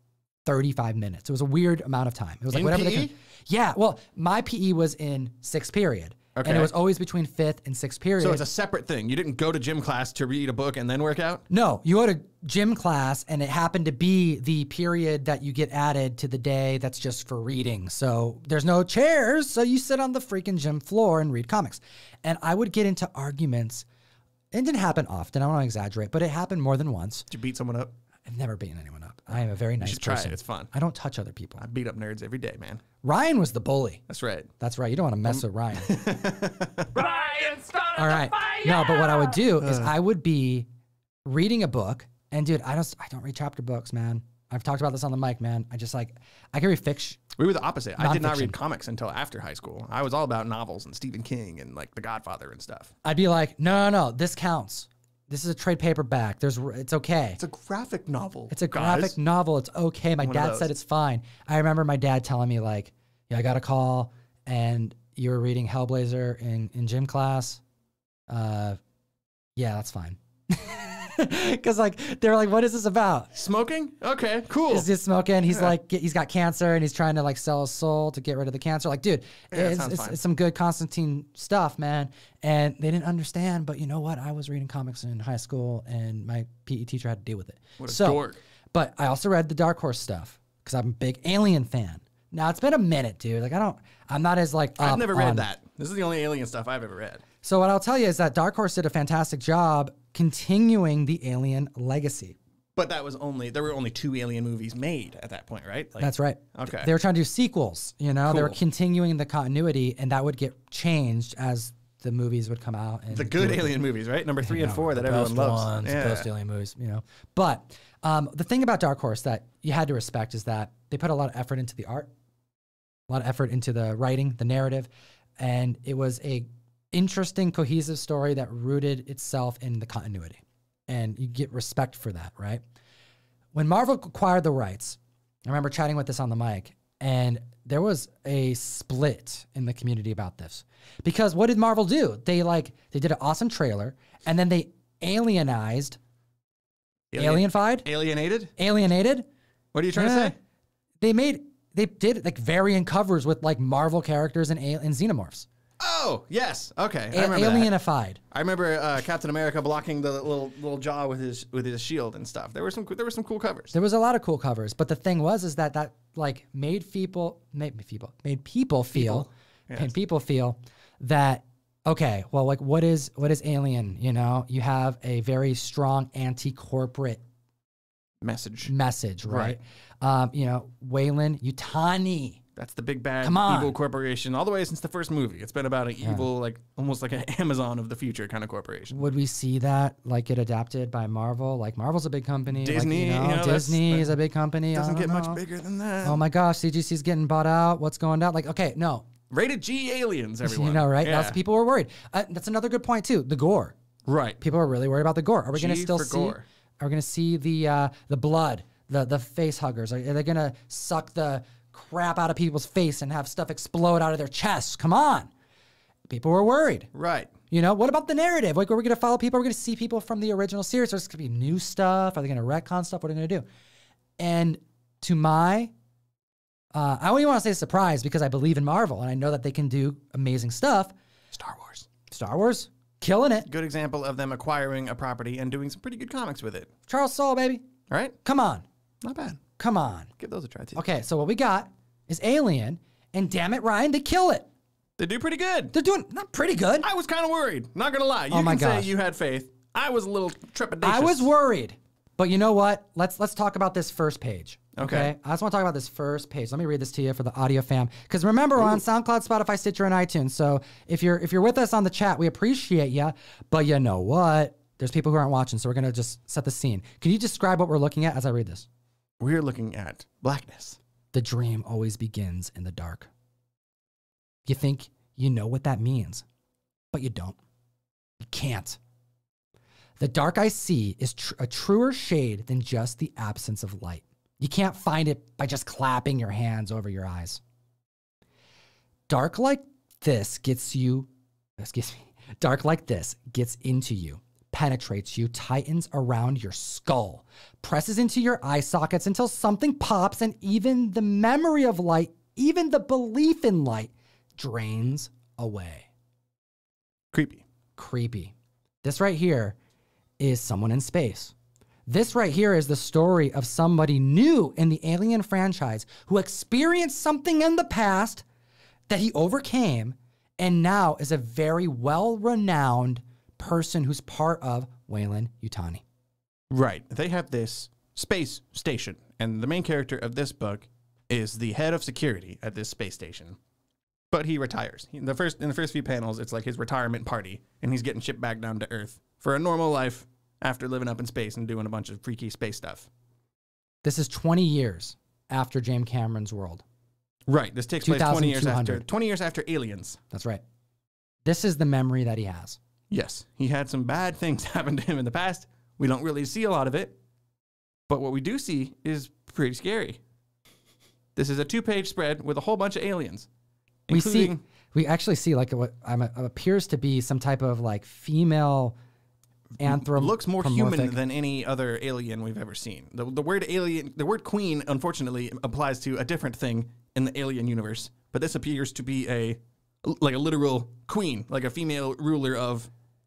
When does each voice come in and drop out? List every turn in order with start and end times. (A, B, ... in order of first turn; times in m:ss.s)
0:00.5-0:08.5 A
0:02.5-0:03.1 B
0:06.4-0:06.7 B
0:08.2-0:11.4 B
0:11.5-0:23.8 A
0:24.5-0:27.3 A
0:27.3-0:27.9 B
0:28.3-0:31.6 A
0:29.8-0:30.7 B
0:31.6-0:32.8 B
0:33.0-0:34.0 A
0:34.1-0:34.5 B
0:34.6-0:36.0 A
0:35.3-0:37.0 B
0:37.0-0:39.4 C
0:38.0-0:40.7 A
0:39.6-0:39.9 B
0:41.2-0:47.2 A
0:47.4-0:52.9 B
0:48.0-0:48.6 A
0:53.0-0:57.4 A
0:57.4-0:59.2 B
0:58.5-1:07.6 A
1:00.2-1:00.7 B
1:08.3-1:08.8 A
1:09.6-1:13.3 A
1:13.4-1:14.9 B
1:14.7-1:35.5 A
1:19.5-1:20.2 B
1:27.8-1:28.4 B
1:34.8-1:37.2 B
1:37.4-1:42.4 A
1:42.8-1:46.9 B
1:46.0-1:53.7 A
1:48.2-1:48.6 B
1:53.1-1:56.3 B
1:54.4-2:02.1 A
2:03.1-2:12.6 A
2:13.5-2:26.0 A
2:27.1-2:28.5 B
2:27.2-2:27.9 A
2:28.6-2:29.3 A
2:29.7-2:30.4 B
2:29.9-2:30.4 A
2:31.0-2:35.5 A
2:35.8-2:37.7 B
2:37.1-2:38.2 A
2:38.3-2:43.7 B
2:43.7-2:57.2 A
2:48.9-2:49.9 B
2:58.2-2:58.7 B
2:58.6-3:02.4 A
2:59.2-2:59.6 B
3:02.6-3:09.1 B
3:03.2-3:03.7 A
3:06.0-3:06.3 A
3:08.9-3:15.4 A
3:12.5-3:14.1 B
3:14.7-3:16.2 B
3:16.0-3:19.1 A
3:19.3-3:21.4 B
3:20.4-3:23.7 A
3:24.1-3:24.4 B
3:24.4-3:35.3 A
3:25.5-3:26.4 B
3:36.1-3:36.9 A
3:36.9-3:37.3 B
3:37.5-3:43.4 A
3:44.2-3:45.7 A
3:46.7-3:50.9 A
3:51.3-3:51.9 B
3:52.1-3:53.5 A
3:53.5-3:56.7 B
3:56.9-3:57.6 A
3:57.9-3:58.2 B
3:58.2-3:58.6 A
3:59.0-3:59.4 B
3:59.6-4:00.1 A
4:00.2-4:00.8 B
4:00.8-4:04.5 A
4:05.0-4:05.7 B
4:05.7-4:06.9 A
4:06.8-4:11.3 B
4:08.3-4:08.9 A
4:10.8-4:28.7 A
4:14.8-4:15.1 B
4:18.6-4:18.8 B
4:29.2-4:30.8 B
4:31.1-4:33.1 A
4:34.5-4:36.2 A
4:36.9-4:37.4 A
4:38.3-4:38.8 A
4:40.0-4:47.4 A
4:49.1-5:05.9 A
5:07.1-5:07.4 B
5:07.8-5:09.6 A
5:10.2-5:11.3 A
5:11.9-5:18.2 A
5:18.9-5:25.8 A
5:26.5-5:33.4 B
5:34.1-5:42.9 B
5:43.8-5:46.6 A
5:47.3-5:50.0 B
5:47.8-5:48.9 A
5:50.1-5:50.4 A
5:51.2-5:52.6 A
5:52.9-5:57.0 B
5:57.9-6:00.0 B
6:01.2-6:03.3 B
6:03.9-6:04.4 B
6:03.9-6:08.8 A
6:09.6-6:11.0 A
6:09.6-6:22.7 B